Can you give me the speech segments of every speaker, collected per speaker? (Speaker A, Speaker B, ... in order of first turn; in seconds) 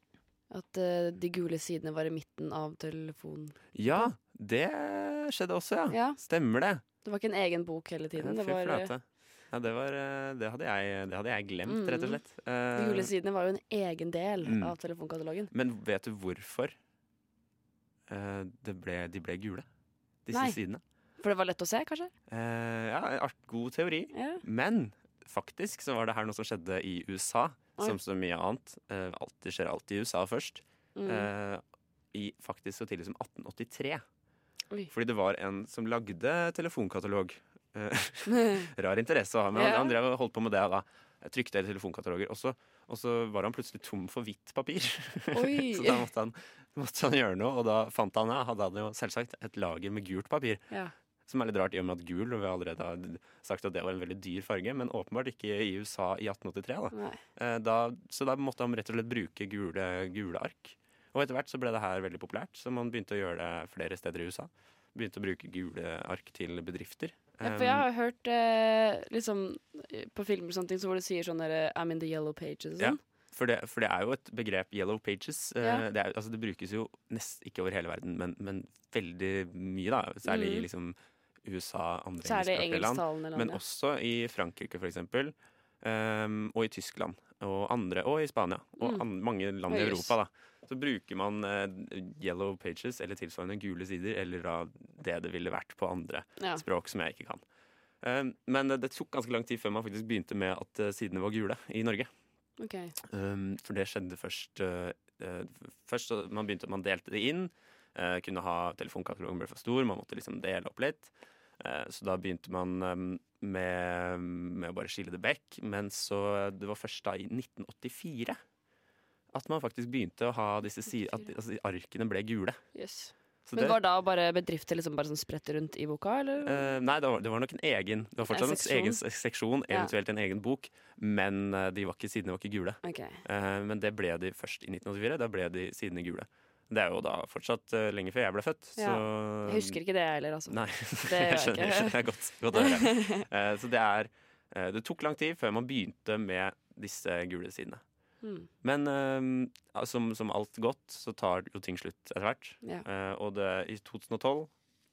Speaker A: 0.5-4.1, 5.9-6.2, 7.0-8.9, 11.7-12.2, 12.7-15.5, 20.3-20.6, 21.2-22.1, 24.1-24.4, 30.9-31.3, 38.3-38.6, 39.5-40.0, 45.3-46.0, 56.9-57.2, 67.4-73.0, 75.6-75.8, 80.2-80.7, 82.2-83.6, 89.7-90.1, 102.6-102.9, 122.7-126.7, 128.3-129.0, 132.8-133.2, 138.8-142.0, 142.5-143.2, 148.2-148.5
Speaker B: 3.7-6.8, 8.2-13.1, 14.4-14.7, 15.5-16.7, 18.1-19.6, 20.2-20.8, 22.3-31.6, 32.1-34.0, 34.9-50.6, 51.3-67.8, 72.8-97.4, 98.0-102.1, 103.0-118.4, 119.3-122.6, 123.5-123.8, 126.4-139.8, 140.5-147.8, 148.6-154.5